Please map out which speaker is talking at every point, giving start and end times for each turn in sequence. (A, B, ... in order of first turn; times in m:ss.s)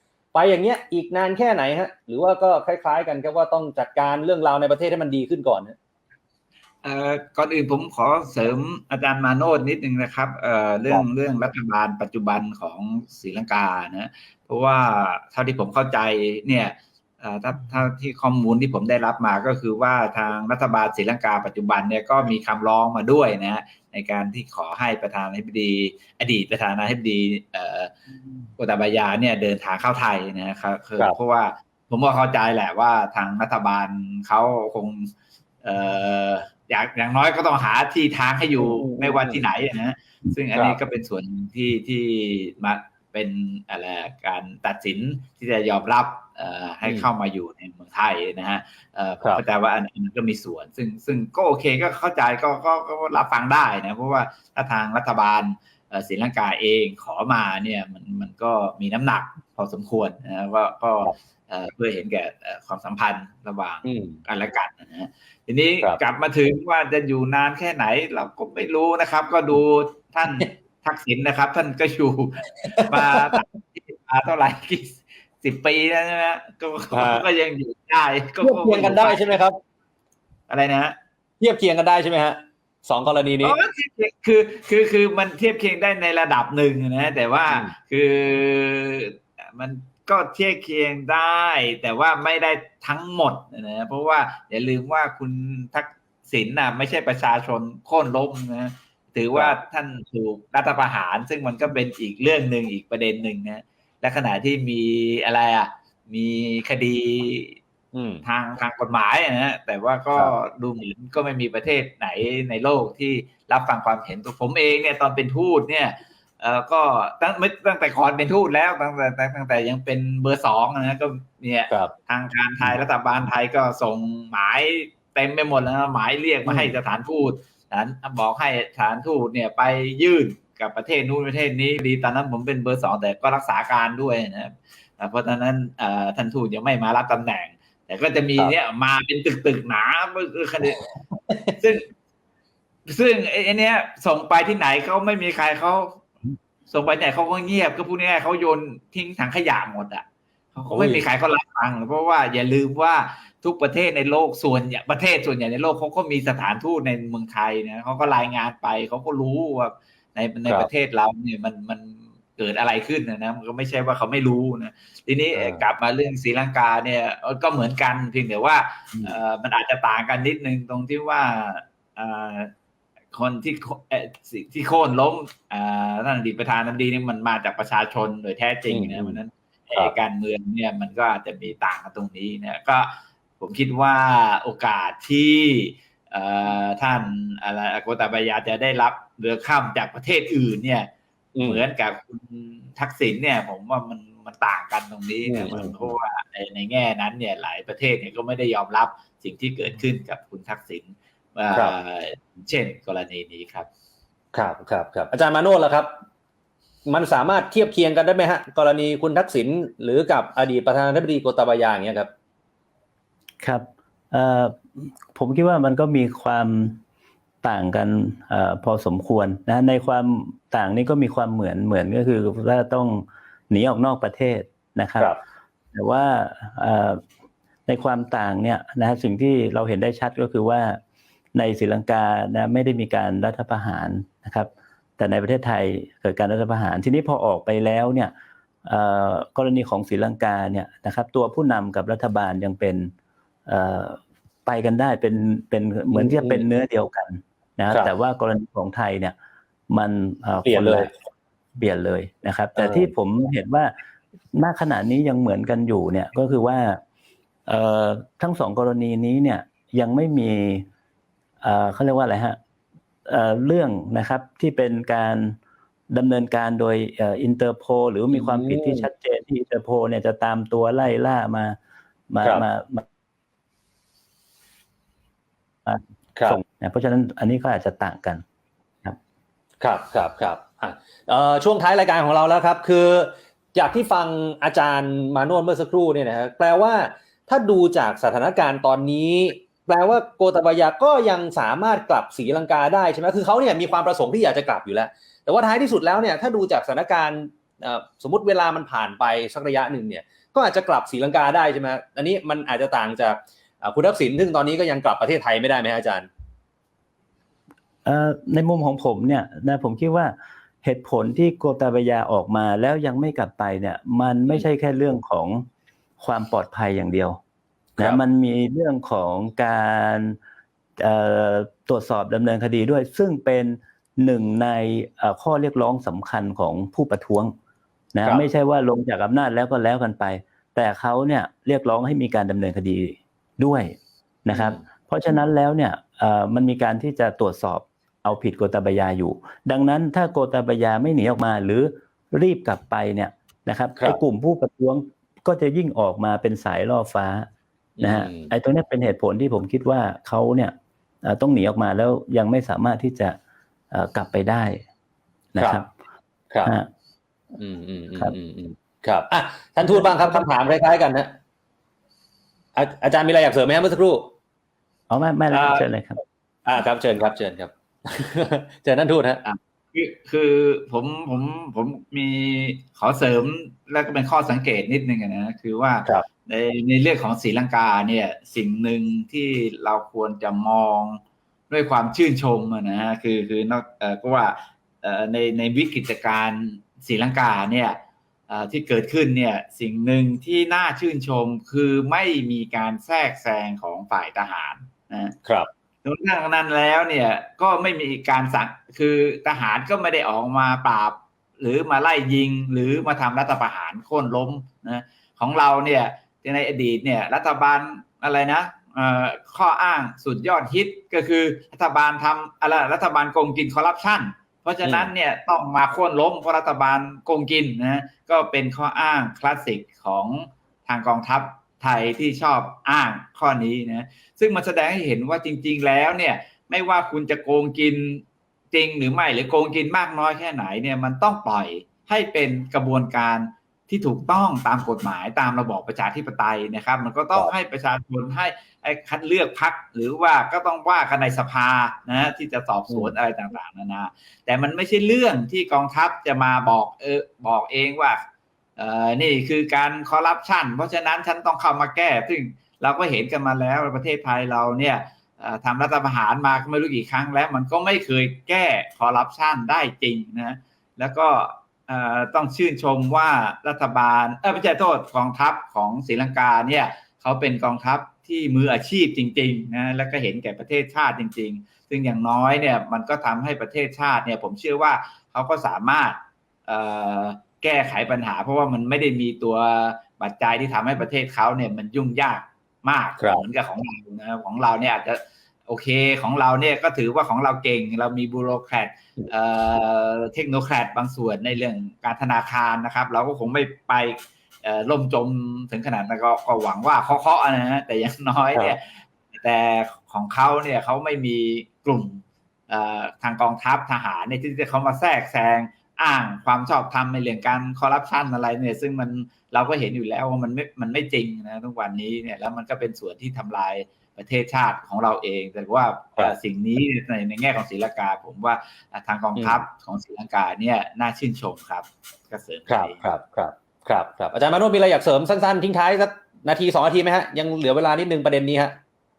0:00.3-0:05.8 A
0:06.8-0:27.9 B
0:28.6-0:35.1 B
0:35.6-1:19.4 B
0:38.6-0:39.4 A
1:03.8-1:04.2 A
1:12.6-1:13.4 A
1:16.9-1:17.2 A
1:18.4-1:19.6 A
1:20.5-1:21.0 B
1:21.4-1:23.6 A
1:23.4-1:47.6 B
1:47.9-1:48.2 A
1:48.2-2:20.8 B
2:06.5-2:06.8 A
2:21.6-2:21.8 B
2:22.9-2:26.0 B
2:26.7-2:30.0 B
2:30.5-2:52.5 B
2:30.7-2:31.0 A
2:45.3-2:45.6 A
2:53.1-3:10.9 B
2:58.7-2:59.2 A
3:11.3-3:11.6 A
3:11.4-3:23.7 B
3:15.2-3:15.9 A
3:24.3-3:26.0 A
3:26.9-3:32.1 A
3:33.4-3:36.8 C
3:37.4-3:45.1 C
3:45.7-3:47.0 C
3:47.7-3:50.8 C
3:51.3-3:58.1 C
3:58.6-4:02.9 C
4:03.5-4:09.1 C
4:05.9-4:06.4 A
4:09.7-4:13.7 C
4:10.4-4:10.9 A
4:12.6-4:12.9 A
4:14.3-4:16.8 C
4:17.5-4:20.6 C
4:21.4-4:22.4 C
4:23.0-4:25.4 C
4:25.9-4:31.6 C
4:28.1-4:28.9 A
4:32.1-4:32.8 C
4:35.6-4:38.2 C
4:36.1-4:36.4 A
4:39.6-5:06.1 A
5:07.8-5:15.4 C
5:16.0-5:17.2 C
5:17.8-5:18.0 A
5:17.8-5:20.2 C
5:20.8-5:27.3 C
5:27.9-5:33.7 C
5:34.2-5:47.2 C
5:34.3-5:34.6 A
5:47.8-5:48.3 A
5:47.8-5:50.5 C
5:51.0-5:53.2 C
5:53.7-5:54.6 C
5:55.3-5:55.7 C
5:55.4-5:55.6 A
5:57.4-6:01.1 A
5:59.7-6:00.3 C
6:02.5-6:04.1 A
6:04.9-6:06.0 C
6:06.4-6:09.2 A
6:09.2-6:35.2 B
6:35.2-6:35.5 A
6:35.8-7:28.0 B
6:54.6-6:54.9 A
7:28.6-8:18.6 B
8:03.0-8:03.2 A
8:19.2-8:42.8 B
8:39.2-8:39.4 A
8:42.5-8:48.6 A